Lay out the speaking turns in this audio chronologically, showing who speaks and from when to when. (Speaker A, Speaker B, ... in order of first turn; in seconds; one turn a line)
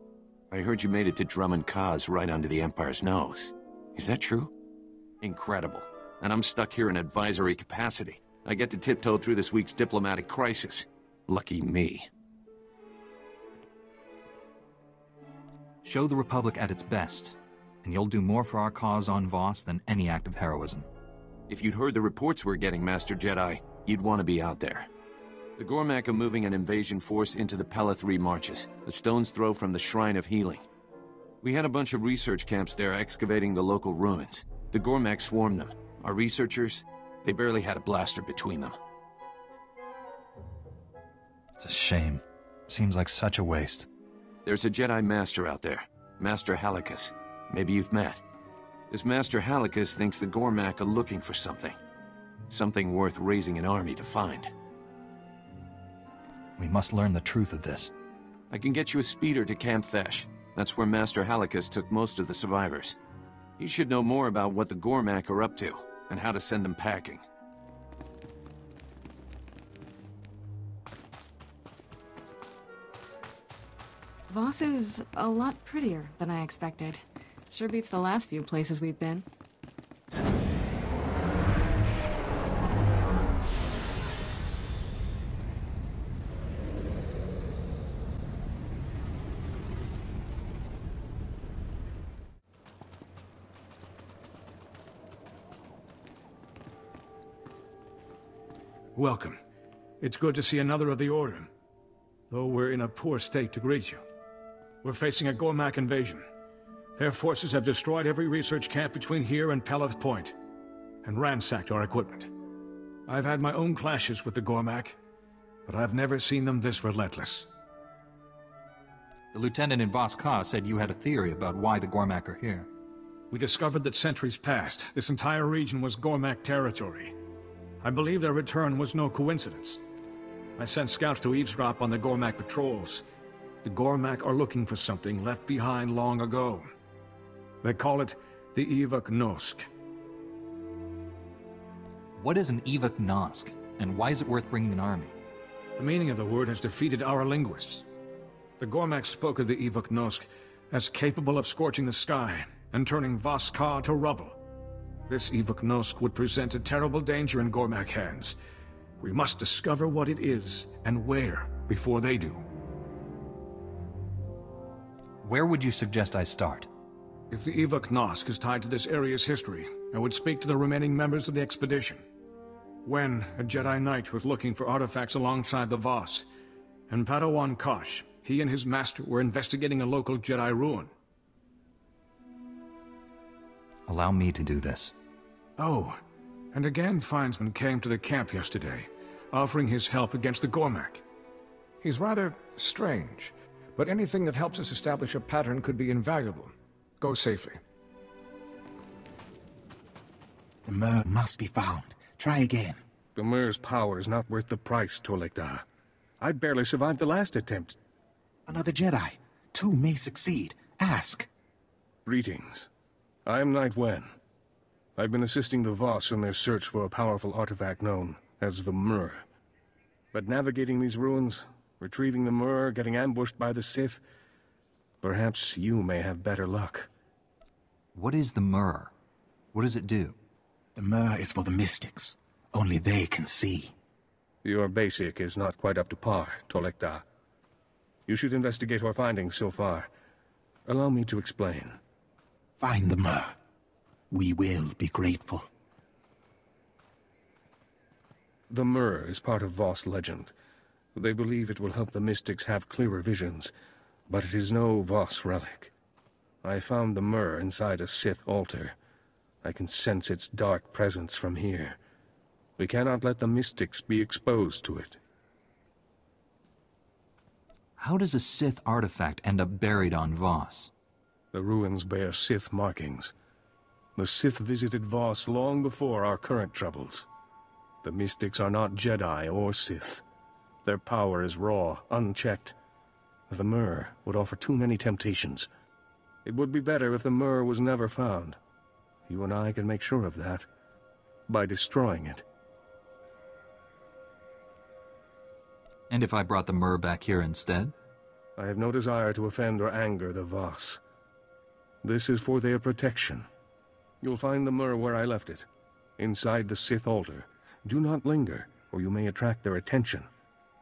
Speaker A: 0.5-4.5
Speaker A: 5.2-12.1
Speaker B: 15.8-20.9
Speaker A: 21.5-24.9
Speaker A: 25.6-30.6
Speaker A: 31.4-38.8
Speaker B: 41.6-43.9
Speaker A: 44.5-48.2
Speaker A: 48.9-51.8
Speaker A: 52.5-54.5
Speaker B: 56.6-57.9
Speaker A: 58.5-63.0
Speaker A: 63.6-67.2
Speaker C: 74.3-79.2
Speaker D: 99.0-99.4
Speaker D: 100.0-101.5
Speaker D: 102.3-104.0
Speaker D: 104.8-106.2
Speaker D: 107.0-110.3
Speaker D: 111.0-112.3
Speaker D: 113.1-115.0
Speaker D: 115.7-117.5
Speaker B: 119.3-122.7
Speaker D: 123.3-127.1
Speaker D: 127.8-129.8
Speaker D: 130.6-133.0
Speaker D: 133.6-136.7
Speaker D: 137.6-139.7
Speaker B: 142.2-145.2
Speaker D: 145.8-147.9
Speaker D: 148.6-154.4
Speaker D: 155.1-158.4
Speaker D: 159.0-162.4
Speaker B: 165.2-166.7
Speaker D: 167.3-172.0
Speaker D: 172.8-176.3
Speaker D: 176.9-180.9
Speaker B: 183.9-184.9
Speaker D: 185.6-186.0
Speaker D: 186.5-191.0
Speaker D: 191.8-197.6
Speaker E: 200.7-202.8
Speaker F: 203.2-205.6
Speaker F: 206.2-207.8
Speaker E: 208.5-211.3
Speaker F: 212.1-212.7
Speaker F: 213.3-214.1
Speaker F: 215.0-219.2
Speaker F: 220.1-224.0
Speaker F: 225.0-226.9
Speaker B: 227.9-228.9
Speaker B: 229.5-230.2
Speaker E: 230.8-233.7
Speaker F: 234.4-237.0
Speaker F: 238.1-239.9
Speaker F: 240.7-241.8
Speaker E: 242.6-243.3
Speaker E: 244.1-245.4
Speaker F: 248.5-250.3
Speaker F: 250.9-253.5
Speaker F: 254.1-255.7
Speaker F: 256.4-258.8
Speaker F: 259.4-261.8
Speaker F: 262.6-265.0
Speaker B: 267.8-270.7
Speaker F: 271.3-273.1
Speaker F: 274.0-277.1
Speaker F: 277.8-280.0
Speaker F: 280.6-282.6
Speaker F: 283.3-285.5
Speaker F: 286.2-288.4
Speaker F: 289.1-290.5
Speaker F: 291.3-292.2
Speaker B: 295.9-297.7
Speaker F: 298.4-300.8
Speaker F: 301.8-303.3
Speaker F: 304.0-305.5
Speaker F: 306.0-310.1